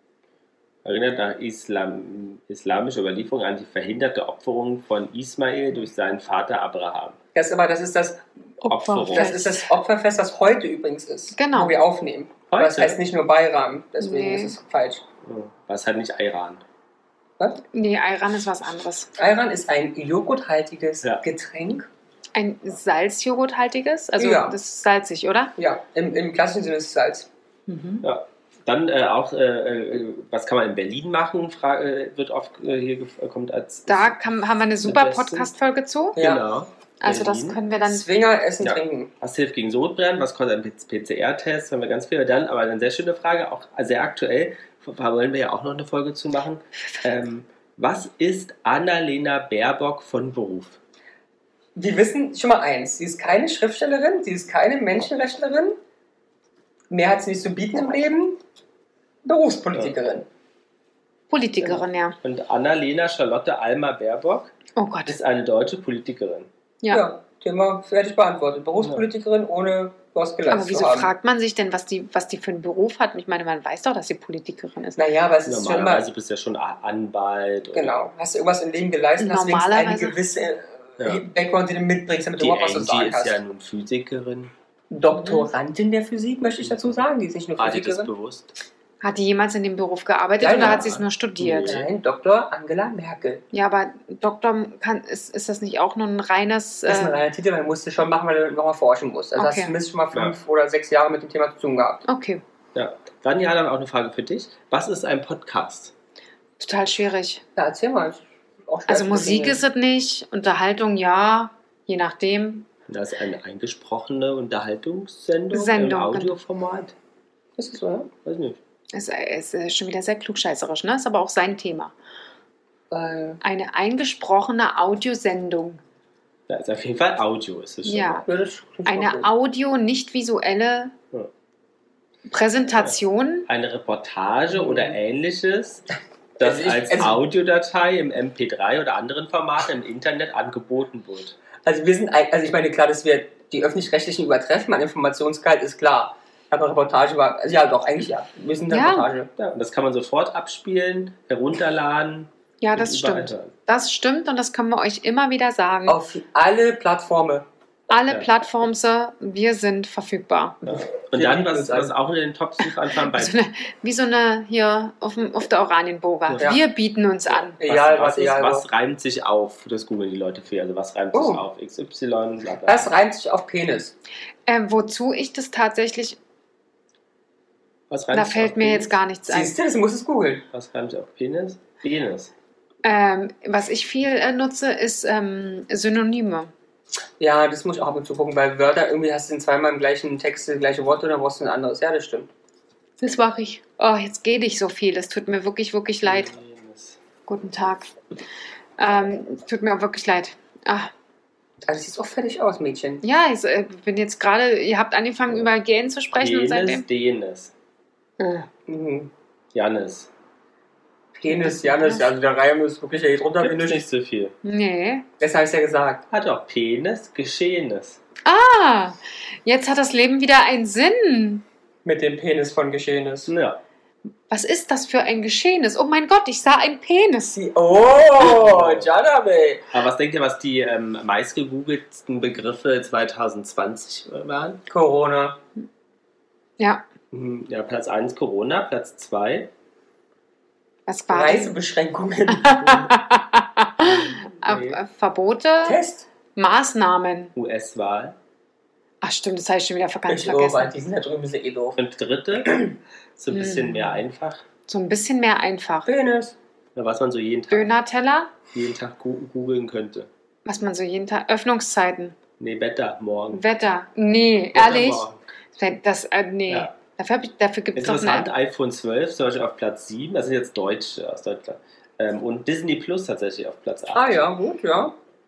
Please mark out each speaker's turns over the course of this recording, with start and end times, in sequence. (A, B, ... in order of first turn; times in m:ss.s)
0:00.8-0:07.2 A
0:07.4-0:08.2 B
0:08.6-0:09.7 C
0:08.7-0:09.4 A
0:09.0-0:15.0 B
0:11.4-0:11.8 C
0:12.5-0:13.0 A
0:14.0-0:14.6 C
0:15.3-0:16.6 A
0:17.7-0:19.1 C
0:19.2-0:21.9 B
0:22.4-0:25.5 C
0:24.2-0:24.6 B
0:25.6-0:27.3 B
0:27.7-0:28.0 C
0:28.0-0:34.1 A
0:33.9-0:36.2 C
0:34.8-0:35.5 A
0:36.2-0:36.4 B
0:36.2-0:37.6 A
0:37.0-0:38.1 C
0:37.8-0:39.1 B
0:38.6-0:50.8 A
0:51.8-0:55.8 B
0:56.9-0:58.4 B
0:59.2-1:00.3 B
1:01.3-1:02.2 C
1:01.6-1:04.5 A
1:04.8-1:05.2 C
1:05.1-1:06.5 A
1:06.9-1:11.1 B
1:10.5-1:15.0 C
1:15.0-1:16.1 B
1:15.4-1:18.1 A
1:17.7-1:23.4 B
1:19.2-1:20.2 C
1:22.4-1:24.5 A
1:24.9-1:28.1 B
1:25.1-1:25.5 C
1:26.6-1:27.0 A
1:27.6-1:28.5 A
1:29.0-1:31.8 C
1:30.4-1:31.0 B
1:30.6-1:31.9 A
1:31.6-1:33.4 B
1:33.5-1:37.2 C
1:36.9-1:42.0 B
1:39.4-1:39.7 C
1:42.1-1:42.4 C
1:42.7-1:45.9 A
1:46.6-1:47.4 C
1:47.6-1:49.6 B
1:48.9-1:52.7 C
1:52.9-1:56.9 A
1:55.5-1:56.4 C
1:57.6-1:58.1 B
1:58.2-1:58.6 A
1:58.9-2:01.9 C
2:02.9-2:03.4 B
2:03.4-2:05.8 C
2:06.5-2:08.2 A
2:07.8-2:08.2 C
2:08.2-2:09.3 B
2:08.9-2:10.9 C
2:12.3-2:13.5 C
2:13.5-2:15.8 A
2:14.5-2:15.0 B
2:16.4-2:21.4 A
2:16.4-2:17.2 B
2:21.6-2:29.3 B
2:28.7-2:29.1 C
2:29.4-2:33.5 A
2:32.6-2:36.0 C
2:35.9-2:37.5 B
2:37.9-2:40.6 C
2:40.6-2:41.9 B
2:40.7-2:43.4 A
2:43.0-2:47.6 C
2:46.3-2:46.6 A
2:47.3-2:52.9 A
2:47.6-2:48.6 B
2:51.1-2:51.4 B
2:52.6-2:53.9 B
2:54.5-2:56.2 C
2:57.9-2:59.0 A
2:58.1-2:59.5 C
2:59.3-3:00.5 B
3:00.5-3:02.3 A
3:02.8-3:06.5 C
3:07.2-3:12.3 B
3:13.0-3:16.3 C
3:16.0-3:17.0 A
3:17.3-3:17.9 C
3:18.8-3:20.9 C
3:21.6-3:23.0 B
3:23.0-3:26.8 C
3:26.2-3:27.5 A
3:28.2-3:28.5 C
3:28.7-3:29.1 B
3:29.5-3:30.1 A
3:31.2-3:33.8 B
3:31.3-3:32.1 C
3:33.4-3:34.4 A
3:34.4-3:35.1 C
3:35.2-3:36.0 B
3:36.1-3:38.0 A
3:38.2-3:41.4 C
3:41.8-3:43.3 B
3:43.3-3:43.6 A
3:44.3-3:47.4 C
3:47.4-3:49.7 B
3:48.2-3:48.9 A
3:49.7-3:54.6 A
3:54.7-3:55.4 B
3:56.6-3:56.8 C
3:57.1-3:59.5 A
4:00.9-4:01.5 C
4:01.1-4:02.9 B
4:02.3-4:05.8 C
4:03.8-4:04.8 A
4:05.6-4:06.1 B
4:06.4-4:07.3 C
4:07.4-4:08.2 A
4:09.0-4:10.7 C
4:10.1-4:11.8 B
4:11.8-4:12.6 A
4:12.5-4:12.7 B
4:13.2-4:14.4 A
4:13.3-4:14.0 C
4:14.7-4:15.9 C
4:15.9-4:16.4 B
4:16.8-4:17.7 A
4:17.5-4:18.3 C
4:18.5-4:20.1 A
4:20.4-4:22.2 C
4:22.4-4:23.4 A
4:23.3-4:28.3 C
4:24.5-4:25.2 A
4:27.8-4:34.2 A
4:33.9-4:35.0 B